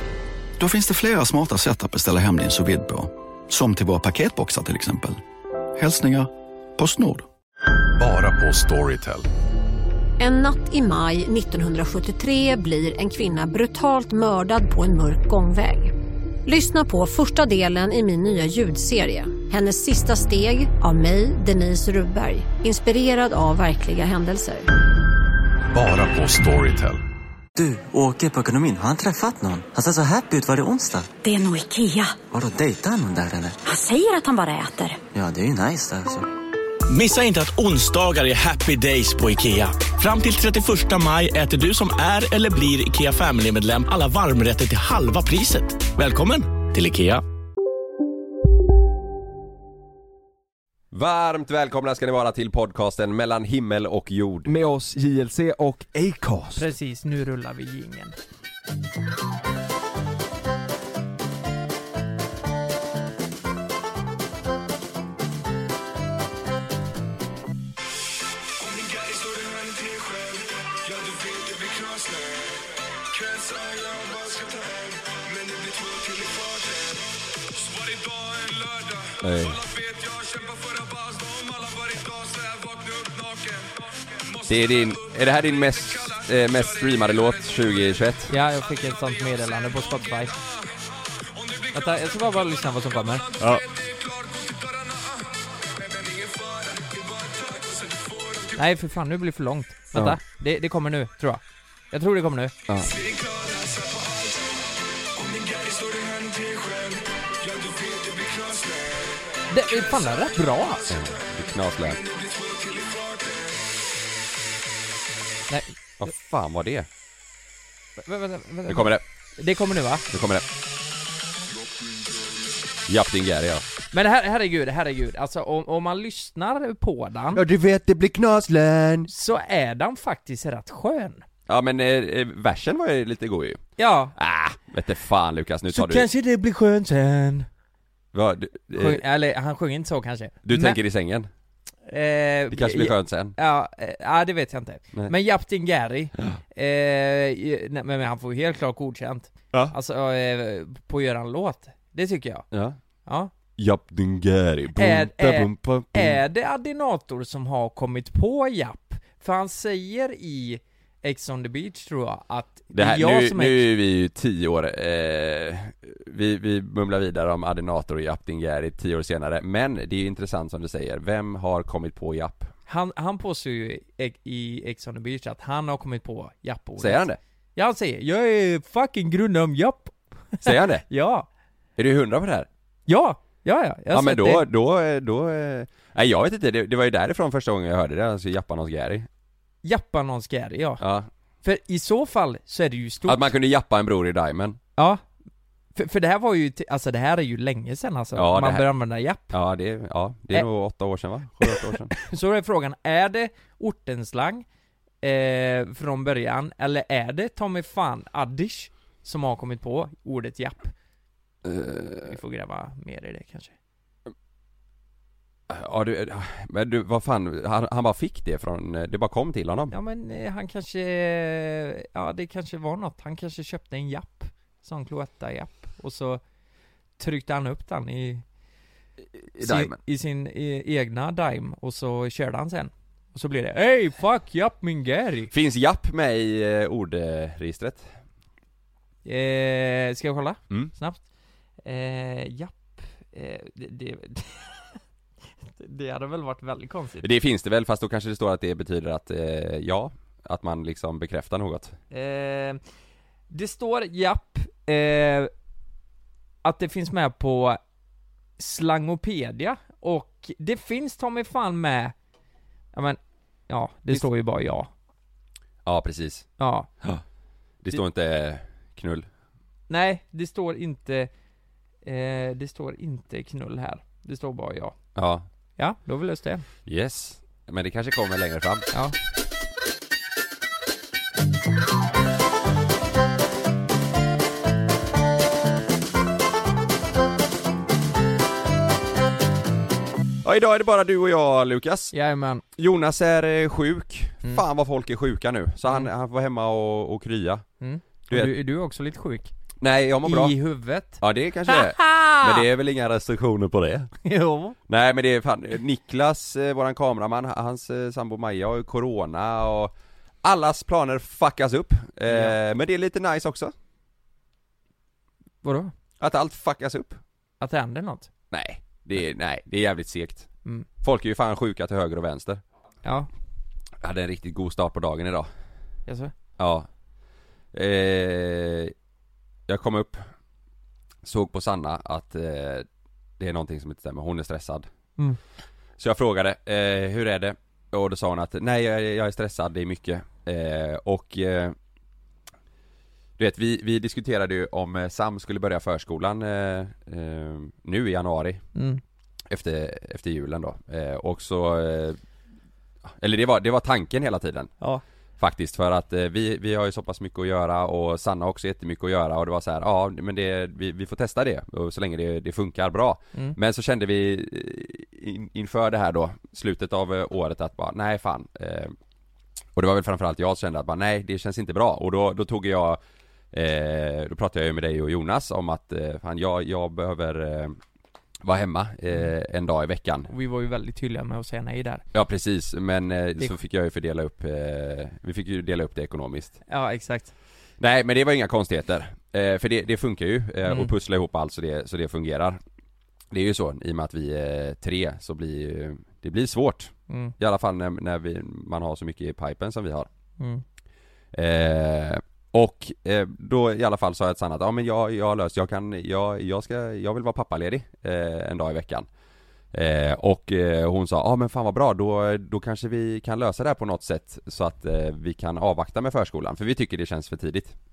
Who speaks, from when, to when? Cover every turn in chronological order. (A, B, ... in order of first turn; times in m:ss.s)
0:00.6-0:05.2 A
0:05.8-0:07.2 A
0:08.0-0:09.3 B
0:10.2-0:15.9 C
0:16.4-0:24.7 C
0:25.7-0:27.0 B
0:27.6-0:31.1 D
0:31.2-0:32.2 E
0:32.2-0:33.6 D
0:33.7-0:35.0 E
0:35.1-0:36.3 D
0:36.9-0:47.2 F
0:50.9-0:54.5 G
0:54.5-0:56.6 H
0:56.6-0:58.1 I
1:19.2-1:19.7 G
1:24.4-1:28.3 G
1:28.3-1:30.3 I
1:31.7-1:33.3 I
1:38.5-1:42.8 I
1:39.9-1:40.2 G
1:49.5-1:50.9 I
1:50.9-1:52.0 G
1:55.5-1:55.8 I
1:56.0-1:56.9 G
1:58.0-2:00.0 I
1:58.7-1:59.0 G
2:00.1-2:00.4 G
2:02.9-2:03.6 G
2:03.9-2:07.4 I
2:07.3-2:09.1 G
2:09.1-2:11.2 I
2:11.5-2:13.6 G
2:13.8-2:14.2 I
2:14.2-2:16.1 G
2:15.7-2:17.5 I
2:18.1-2:19.0 G
2:18.8-2:20.8 I
2:20.4-2:21.3 G
2:21.9-2:32.5 I
2:22.5-2:23.3 G
2:32.5-2:32.8 G
2:33.1-2:33.3 I
2:33.6-2:36.2 G
2:34.7-2:43.7 I
2:42.7-2:52.5 G
2:52.7-3:01.3 I
2:56.8-2:57.2 G
3:00.4-3:00.8 G
3:01.8-3:02.5 G
3:02.9-3:04.4 I
3:03.9-3:09.1 G
3:09.6-3:10.8 I
3:10.8-3:11.1 G
3:11.4-3:13.2 I
3:13.0-3:14.6 G
3:14.8-3:15.0 I
3:15.8-3:19.3 I
3:18.2-3:18.6 G
3:19.3-3:21.9 G
3:21.5-3:24.4 I
3:25.0-3:30.7 I
3:31.4-3:32.1 G
3:32.0-3:33.5 I
3:35.5-3:39.7 G
3:39.7-3:46.2 I
3:47.0-3:48.2 I
3:49.4-3:49.8 G
3:49.4-3:55.3 I
3:55.3-3:57.9 G
3:59.0-4:01.0 I
4:01.6-4:04.8 I
4:05.4-4:07.1 I
4:07.0-4:11.8 G
4:11.9-4:12.6 I
4:13.3-4:15.3 I
4:16.4-4:17.6 I
4:18.4-4:21.9 I
4:22.7-4:24.7 I
4:25.6-4:26.3 G
4:26.4-4:26.7 I
4:27.6-4:29.1 G
4:29.7-4:31.1 I
4:31.8-4:34.8 I
4:34.9-4:35.3 G
4:35.6-4:36.4 I
4:36.6-4:38.6 G
4:50.2-4:51.9 G
4:51.9-4:52.4 I
4:52.6-4:57.4 G
4:57.6-4:59.3 I
4:59.6-5:00.3 G
5:00.0-5:02.4 I
5:01.0-5:03.9 G
5:04.0-5:04.6 I
5:04.7-5:13.5 G
5:12.1-5:12.4 I
5:15.4-5:15.7 I
5:16.0-5:17.0 G
5:17.4-5:18.1 I
5:18.3-5:20.3 G
5:20.8-5:22.4 G
5:22.8-5:23.1 I
5:23.8-5:25.3 G
5:25.9-5:26.1 I
5:26.4-5:26.7 G
5:27.5-5:28.7 G
5:29.5-5:30.1 G
5:31.0-5:32.6 G
5:33.2-5:34.7 G
5:35.8-5:41.5 G
5:43.2-5:48.4 G
5:48.5-5:48.8 I
5:49.3-5:52.0 G
5:52.8-5:54.5 G
5:55.2-6:08.8 G
6:09.5-6:12.8 G
6:13.3-6:17.6 G
6:18.2-6:20.1 G
6:20.1-6:21.8 I
6:21.9-6:26.4 G
6:26.5-6:27.1 I
6:27.6-6:32.4 G
6:30.4-6:30.7 I
6:33.1-6:39.9 G
6:36.9-6:37.1 I
6:41.1-6:48.9 G
6:49.5-6:57.5 G